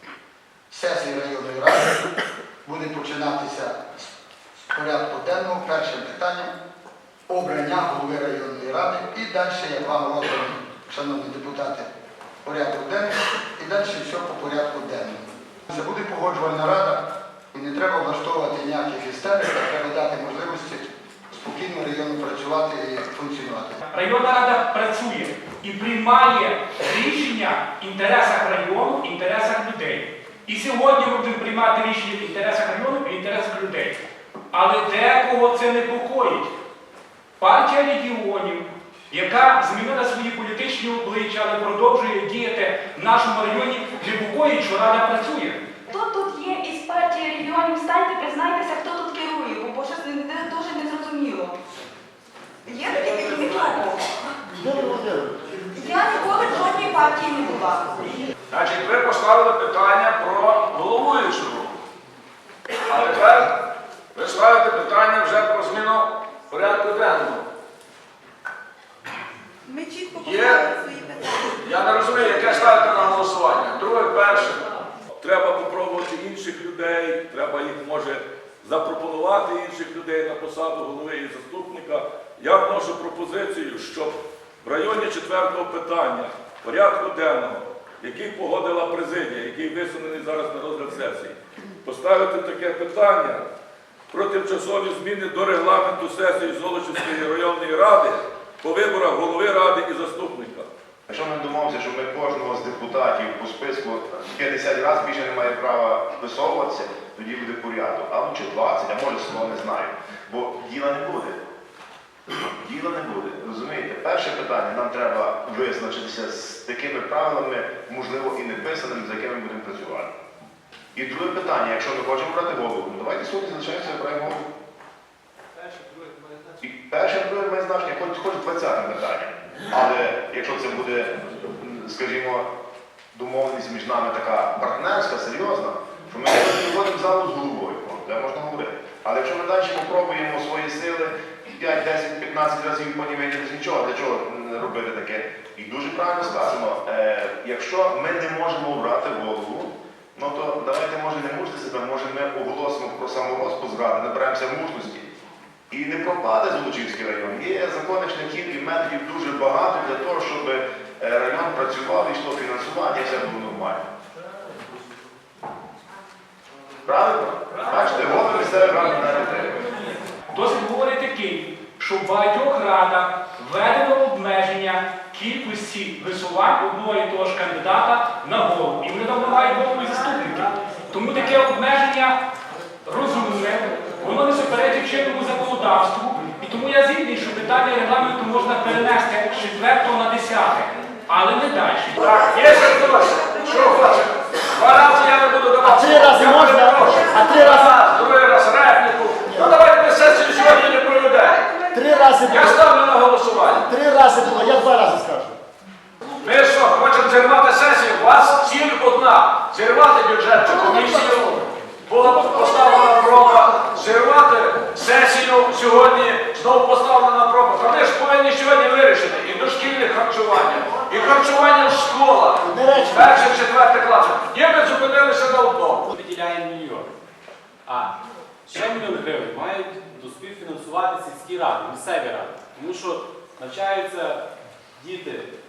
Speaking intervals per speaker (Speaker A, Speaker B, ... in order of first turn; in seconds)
Speaker A: 0.7-2.0, 2.6-3.8, 4.7-6.5, 7.3-11.9, 12.4-23.8
Speaker B: 23.9-34.0, 34.5-36.5, 37.4-45.6, 170.3-182.2, 182.8-192.0
Speaker C: 45.9-51.5, 52.7-54.2, 55.8-57.8, 193.4-193.8
Speaker D: 54.6-55.3, 195.6-197.9, 199.2-199.5, 201.7-202.6, 203.6-205.4, 210.6-211.0, 222.4-223.3
Speaker E: 55.8-56.6, 69.7-71.1
Speaker F: 58.5-61.8, 62.9-63.5, 64.1-67.5, 70.2-70.7, 71.6-74.6, 192.0-201.4, 202.2-203.7, 206.2-225.9
Speaker G: 75.2-93.5, 94.1-100.7
Speaker H: 101.1-111.4, 112.6-120.1, 121.0-124.5, 126.6-132.5, 133.1-155.1, 155.7-163.8, 166.9-169.6
Speaker I: 225.9-226.9, 227.7-227.9, 228.5-234.2, 234.8-235.3